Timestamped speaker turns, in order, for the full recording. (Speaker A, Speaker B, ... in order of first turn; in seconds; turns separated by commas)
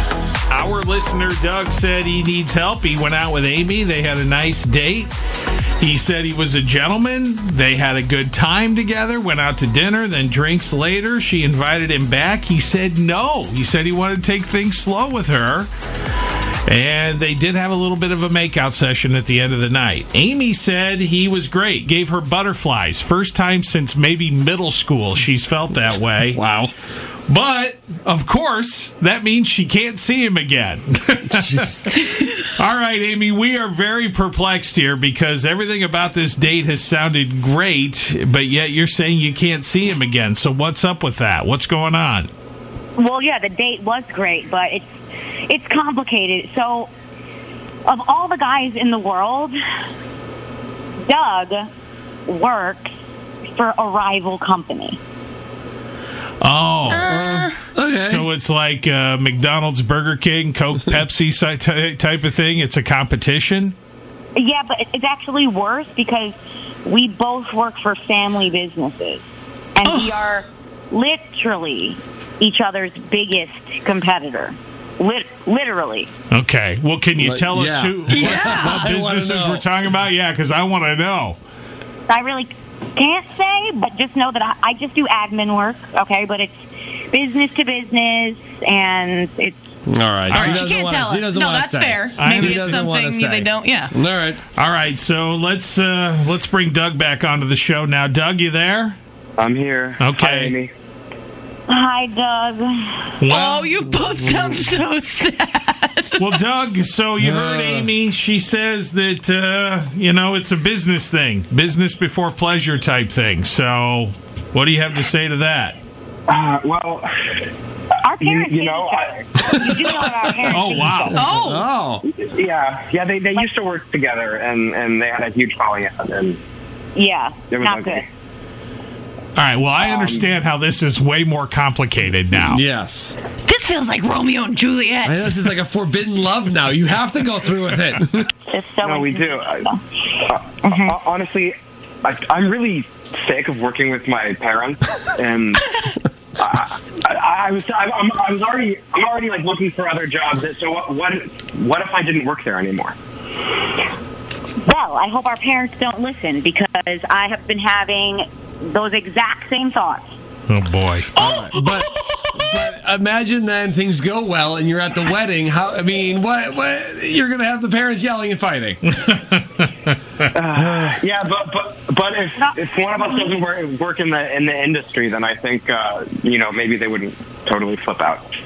Speaker A: 0.5-5.1, Speaker A: 5.8-15.7, Speaker A: 16.7-26.4, Speaker B: 26.3-26.7, Speaker A: 27.3-31.9, Speaker B: 31.3-31.9, Speaker A: 32.6-42.3, Speaker C: 43.0-46.9, Speaker C: 47.9-49.5, Speaker C: 51.1-51.7, Speaker C: 52.3-52.9, Speaker C: 53.5-55.0, Speaker A: 56.4-57.1, Speaker D: 56.9-57.6, Speaker B: 56.9-58.3, Speaker A: 57.8-63.8, Speaker C: 64.3-76.1, Speaker D: 69.8-70.1, Speaker A: 76.3-81.4, Speaker B: 77.2-79.7, Speaker D: 78.1-78.9, Speaker C: 82.1-89.7, Speaker B: 89.9-94.4, Speaker A: 90.3-90.8, Speaker D: 90.5-93.9, Speaker A: 92.2-92.9, Speaker A: 94.5-99.0, Speaker E: 99.4-100.7, Speaker A: 100.0-100.6, Speaker C: 101.7-103.1, Speaker A: 103.2-103.8, Speaker D: 103.3-106.2, Speaker A: 106.2-115.8, Speaker B: 107.2-107.9, Speaker E: 116.3-117.3, Speaker C: 118.0-121.2, Speaker E: 118.2-120.3, Speaker A: 120.5-121.4, Speaker D: 121.1-121.7, Speaker B: 121.4-122.1, Speaker E: 122.1-126.4, Speaker C: 127.0-128.1, Speaker E: 127.5-128.0, Speaker A: 129.4-132.6, Speaker E: 129.8-130.3, Speaker B: 132.5-133.2, Speaker D: 133.5-135.5, Speaker B: 135.1-138.3, Speaker C: 138.5-139.8, Speaker E: 138.8-139.7, Speaker E: 140.3-145.7, Speaker C: 140.6-140.9, Speaker E: 146.4-153.0, Speaker C: 154.6-160.1, Speaker A: 160.5-161.1, Speaker B: 161.2-168.8, Speaker A: 168.9-169.7, Speaker E: 170.3-178.2, Speaker B: 170.6-171.0, Speaker C: 172.4-173.3